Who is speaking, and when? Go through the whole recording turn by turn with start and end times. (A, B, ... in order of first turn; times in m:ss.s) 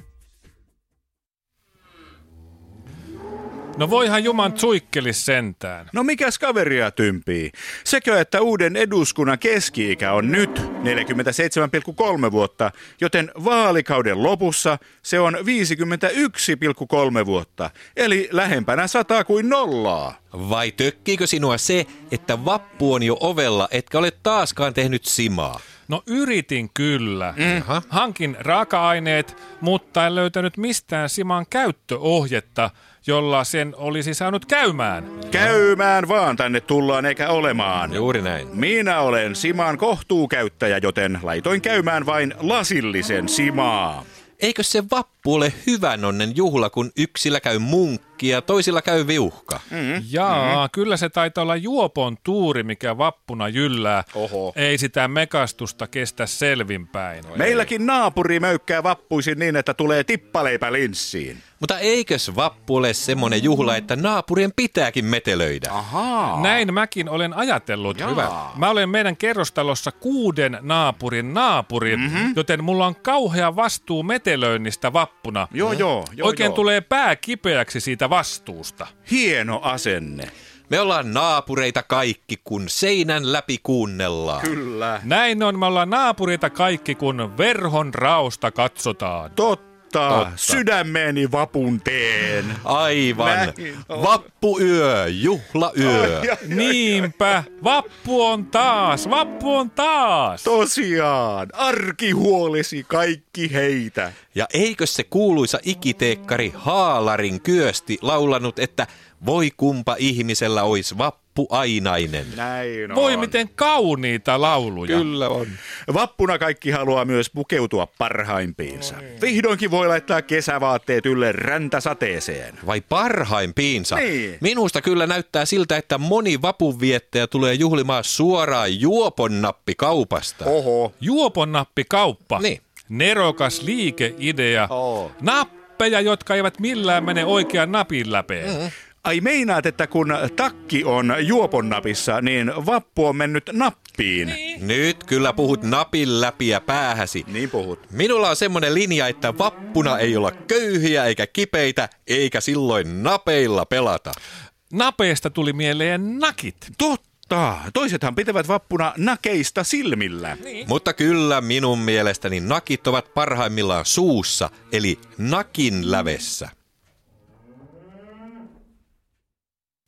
0:03.8-0:05.9 A
0:05.9-0:20.2 B
0:20.3-0:25.6 C
0:25.9-0:35.2 A
0:35.3-0:38.0 B
0:37.9-0:38.5 C
0:38.5-0:44.0 B
0:44.4-0:49.6 C
0:49.7-0:50.5 B
0:50.0-0:57.5 A
0:54.1-0:54.5 B
0:57.4-1:01.4 B
1:01.6-1:05.8 C
1:05.7-1:06.6 B
1:06.2-1:15.5 A
1:08.0-1:08.5 B
1:11.9-1:12.4 B
1:15.5-1:16.6 B
1:16.2-1:18.9 A
1:19.1-1:20.3 B
1:20.7-1:24.5 C
1:24.4-1:25.0 B
1:25.0-1:29.3 A
1:29.4-1:32.6 B
1:30.1-1:30.6 C
1:32.6-1:36.3 C
1:33.2-1:34.1 B
1:35.8-1:37.1 B
1:36.4-1:40.5 A
1:40.4-1:44.1 B
1:44.3-1:52.4 C
1:52.3-1:53.4 B
1:52.9-1:55.0 A
1:54.9-1:55.6 C
1:55.9-2:02.6 B
2:02.6-2:10.5 C
2:03.9-2:04.4 B
2:10.4-2:10.9 B
2:11.0-2:18.6 A
2:18.4-2:18.7 C
2:19.0-2:24.4 B
2:24.5-2:27.3 C
2:27.2-2:27.8 B
2:27.9-2:34.2 C
2:34.7-2:36.7 A
2:36.8-2:40.4 B
2:40.6-2:46.5 C